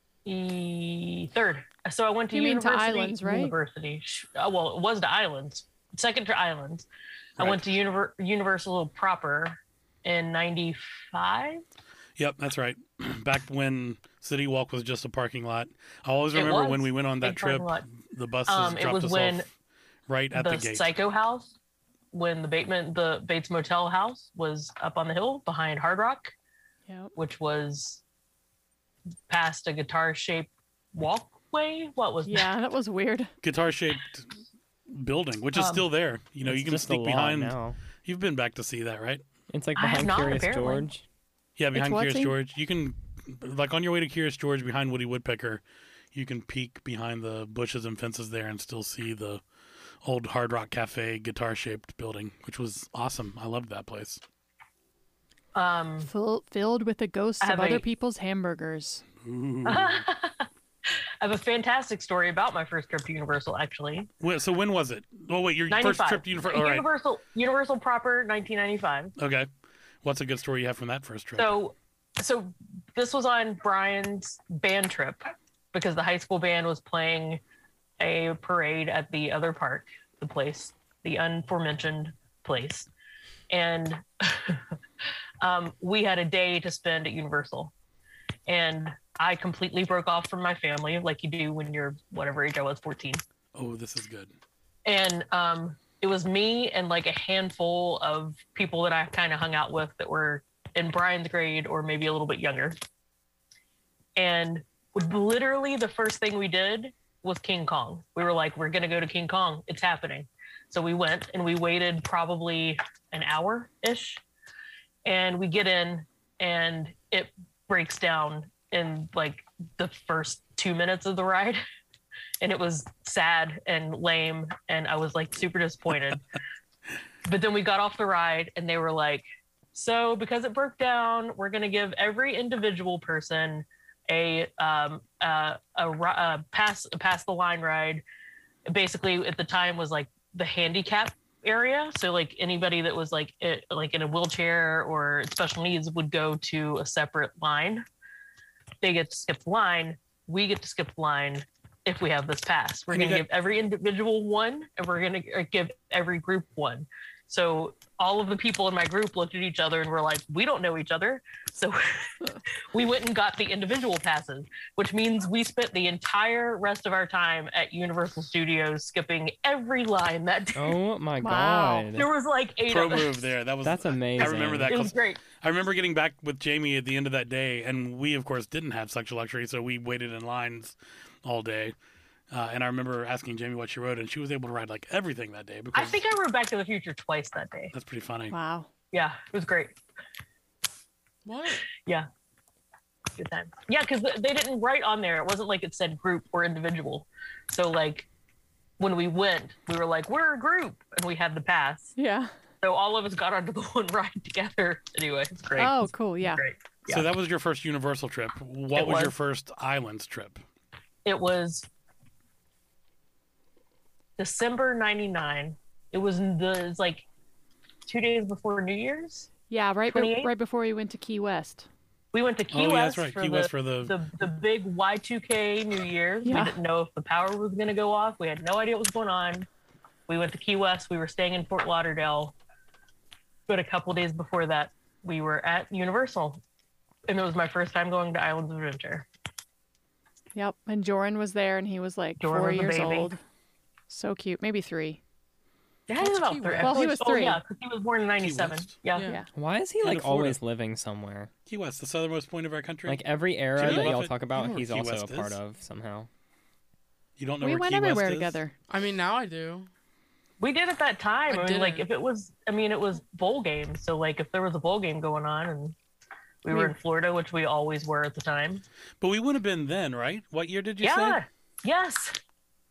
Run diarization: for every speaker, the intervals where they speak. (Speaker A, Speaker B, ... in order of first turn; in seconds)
Speaker A: 0.2-6.9, 7.4-11.6, 16.3-17.9, 18.5-19.4, 20.3-21.5, 22.1-26.3, 27.2-28.0, 29.3-32.5, 35.5-35.9, 39.8-40.9, 55.5-56.1, 57.4-57.8, 59.7-60.5, 61.2-64.1, 65.7-69.2, 71.4-77.4, 78.0-82.9, 83.5-84.6, 85.4-87.7, 88.5-93.2, 94.8-102.8, 104.2-114.2, 115.0-121.6, 122.4-126.2, 127.3-138.0, 138.7-147.8, 148.8-162.1, 162.7-170.7, 171.9-173.3, 174.2-175.2, 185.7-187.7, 188.9-189.8, 191.8-192.1, 193.2-198.1, 198.8-201.9, 202.6-207.1, 208.7-209.1, 211.1-211.7, 214.2-217.1, 217.9-219.3, 219.9-220.3, 222.1-229.5, 230.1-232.3, 233.5-236.4, 237.1-239.1, 242.2-243.1, 245.9-249.1, 260.4-265.8, 266.4-268.6, 270.8-272.1
Speaker B: 2.3-3.5, 26.9-27.1, 32.3-33.3, 41.7-42.4, 56.0-59.0, 171.2-171.9, 188.3-188.7, 202.0-202.3, 205.6-206.4, 219.5-221.7, 226.2-226.6, 240.3-243.2, 243.9-245.0, 246.6-247.4, 257.4-258.5, 266.5-266.8
Speaker C: 7.4-7.7, 12.2-19.5, 20.1-20.9, 33.4-34.3, 34.9-39.2, 41.6-49.4, 50.0-54.2, 59.2-60.0, 64.2-66.9, 69.2-69.5, 70.0-71.5, 93.5-94.3, 152.9-153.3, 172.7-181.8, 182.3-186.0, 187.7-188.3, 205.5-205.8, 206.9-210.4, 222.5-224.0, 248.2-248.8, 249.8-250.4, 251.5-253.0, 253.5-255.4, 257.2-258.4, 269.0-271.2
Speaker D: 36.4-37.8, 39.5-41.0, 170.6-172.1, 173.6-174.8, 249.3-251.3, 252.9-256.1
Speaker E: 191.2-191.6, 246.0-246.9, 248.9-249.2, 253.6-254.6, 258.7-259.7, 261.3-261.9